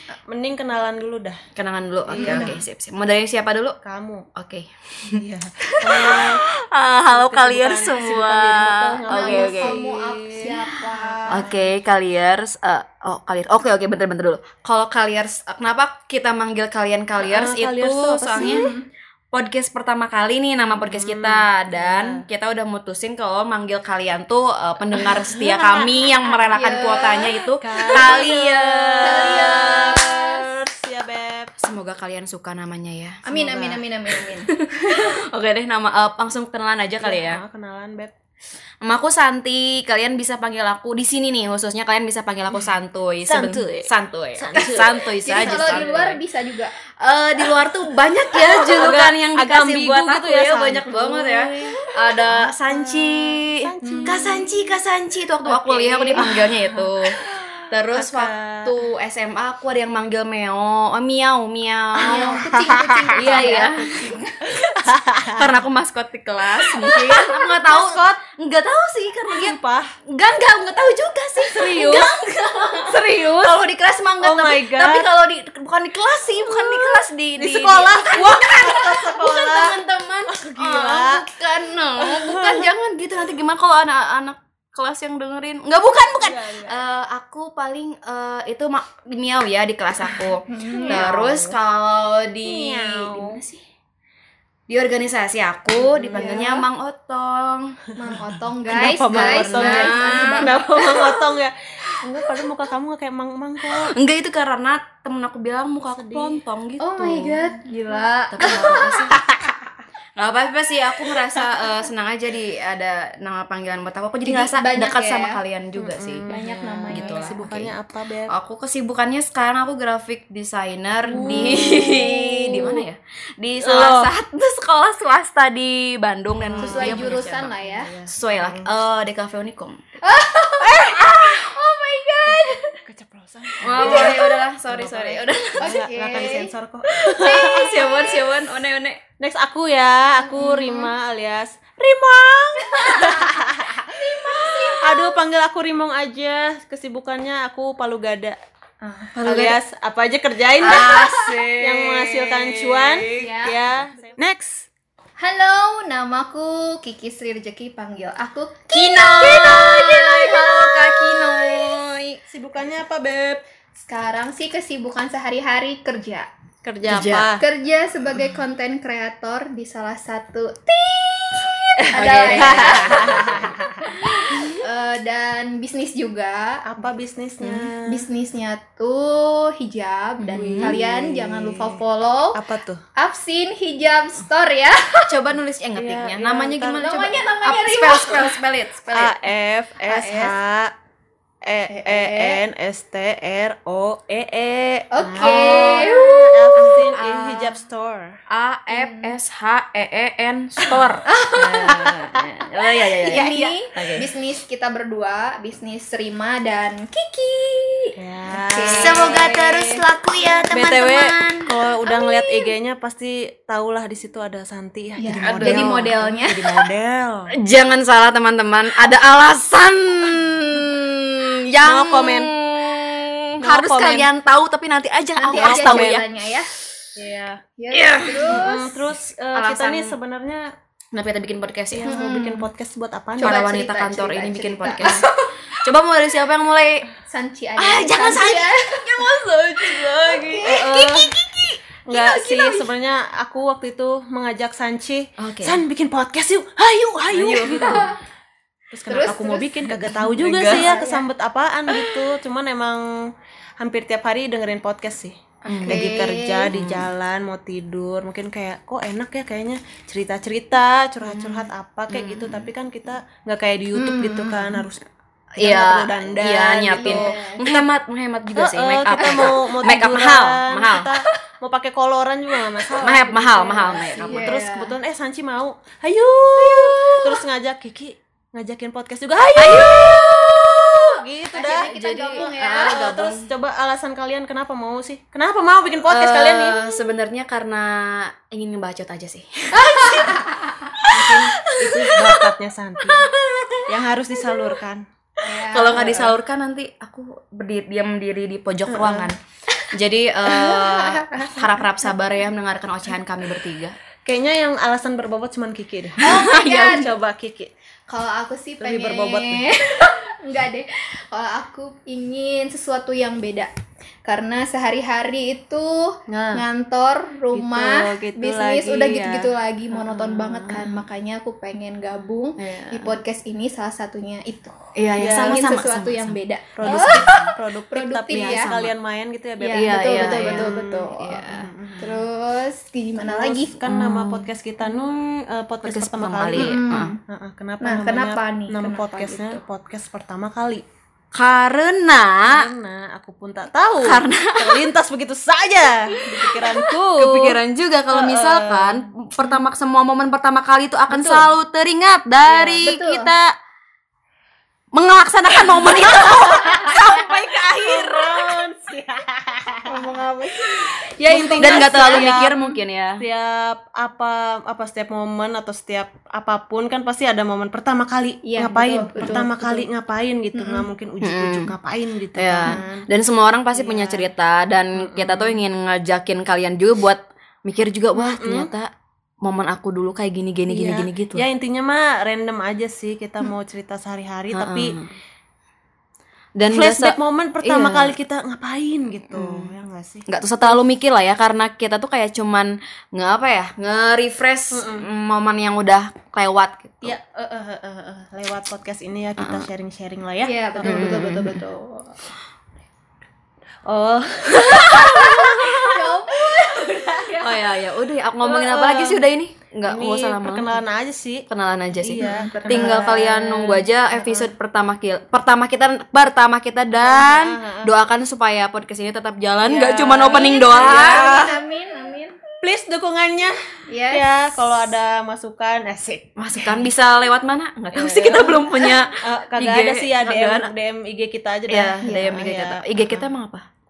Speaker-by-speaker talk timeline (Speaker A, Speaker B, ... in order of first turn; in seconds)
Speaker A: 0.3-1.4, 2.1-2.6, 3.8-4.2, 5.2-6.4, 7.1-10.6, 11.2-11.7, 17.2-18.6, 20.7-22.2, 25.0-26.4, 27.6-31.5, 33.3-33.8, 37.0-38.1, 42.5-46.1, 48.2-54.5, 56.1-58.7, 62.0-65.6, 66.6-68.2, 69.3-69.9, 71.5-72.2, 74.2-75.1, 76.5-81.2, 82.0-82.7, 86.2-86.8, 90.6-91.5, 92.5-93.4, 95.7-96.5, 98.1-103.9, 105.9-106.4, 108.0-109.5, 115.8-118.3, 121.0-122.8, 123.6-124.1, 126.4-128.7, 130.6-131.4, 132.3-138.0, 139.2-148.4, 149.2-154.7, 159.3-159.8, 162.3-163.4, 166.6-167.4, 171.9-173.9, 176.6-178.0, 180.3-181.8, 182.3-182.8, 185.7-186.8, 188.9-190.7, 191.4-198.2, 201.4-201.9, 208.0-209.8, 210.5-217.3, 221.6-222.3, 223.4-224.1, 225.3-225.9, 226.9-227.4, 228.3-230.5, 231.7-233.4, 240.4-241.1, 241.9-247.9, 248.7-252.9, 253.6-264.8, 265.4-267.7, 268.4-286.6, 290.9-293.1, 293.7-294.8, 298.7-299.1, 304.0-307.5, 308.6-309.5, 316.1-316.4, 317.3-320.8, 325.0-325.5, 326.5-332.0, 333.0-340.6, 342.3-347.4, 347.9-348.8, 350.9-351.3, 352.2-352.7, 355.5-359.9, 360.5-372.9, 373.5-374.1, 374.8-375.4, 377.9-378.5, 380.5-384.8, 386.5-390.6, 394.5-394.9, 396.8-401.4, 403.6-406.0, 406.5-406.8, 408.2-409.1, 409.6-411.2, 411.8-414.3, 416.8-417.7, 419.4-421.4, 422.4-423.3, 423.9-426.1, 427.7-433.1
Speaker B: 1.6-3.8, 4.3-9.8, 10.5-18.7, 19.3-29.5, 31.6-33.2, 34.1-37.4, 38.8-46.2, 47.0-57.1, 57.7-62.4, 63.1-64.3, 65.3-69.5, 70.1-93.6, 94.7-97.7, 99.0-100.9, 103.8-107.4, 108.3-109.2, 110.2-116.3, 116.9-117.7, 118.3-127.5, 128.1-129.8, 133.6-135.7, 137.1-139.0, 149.2-149.6, 150.6-153.3, 158.7-162.2, 166.8-167.3, 171.9-174.5, 180.3-180.8, 185.0-189.1, 195.2-197.6, 198.3-204.1, 208.6-211.5, 215.2-215.9, 217.4-226.0, 227.7-228.5, 229.3-229.9, 230.9-231.9, 233.2-235.1, 235.6-236.8, 237.6-242.7, 245.2-245.6, 247.1-247.9, 249.8-250.8, 251.7-252.0, 255.4-255.9, 256.5-256.8, 261.0-262.5, 265.4-270.9, 272.8-274.4, 279.4-280.8, 281.4-283.2, 285.9-292.3, 293.0-293.6, 295.5-299.2, 299.7-303.8, 306.0-306.9, 322.4-323.0, 324.8-327.3, 328.1-328.7, 329.5-331.8, 333.7-334.3, 335.6-336.9, 341.1-342.4, 343.8-344.6, 345.9-353.3, 354.7-358.4, 361.1-363.0, 371.0-371.5, 372.1-378.7, 379.2-381.2, 384.3-384.9, 386.4-388.0, 389.1-389.5, 390.1-396.9, 399.2-399.4, 400.6-401.4, 404.3-405.3, 407.2-410.6, 411.3-421.3, 426.1-430.5, 431.5-433.4
Speaker C: 2.1-2.6, 9.1-11.5, 18.4-18.8, 26.5-28.3, 29.0-30.5, 33.2-34.5, 45.2-46.7, 53.8-54.2, 55.4-56.4, 62.0-64.1, 90.5-91.3, 96.1-96.7, 98.0-101.2, 106.8-109.2, 114.2-115.4, 116.3-117.3, 126.6-127.9, 130.0-132.8, 133.7-134.4, 135.6-136.5, 137.4-138.3, 140.2-140.9, 142.8-145.2, 148.8-149.2, 150.7-151.4, 153.2-153.7, 155.2-161.7, 163.8-166.3, 167.3-173.2, 174.6-176.6, 177.9-182.4, 183.0-185.1, 186.8-188.4, 189.8-190.4, 191.7-192.4, 194.9-196.8, 198.7-199.2, 201.1-201.6, 203.0-209.3, 211.9-212.5, 215.0-216.4, 225.2-226.5, 227.6-228.8, 231.8-232.5, 233.2-235.3, 237.1-239.1, 239.8-240.7, 247.6-247.9, 248.9-249.6, 250.4-251.0, 255.6-256.6, 263.7-264.6, 266.7-267.4, 269.0-269.3, 273.5-274.7, 281.3-282.9, 289.6-290.4, 295.2-296.2, 300.3-301.4, 306.0-306.9, 307.9-313.5, 314.0-324.6, 325.1-327.2, 327.7-328.6, 329.4-333.6, 336.3-337.0, 337.6-339.4, 352.6-353.1, 359.7-362.2, 368.2-369.7, 370.3-370.7, 400.2-401.9, 405.1-407.5, 412.0-413.0, 420.1-422.2, 423.7-424.1, 431.8-432.3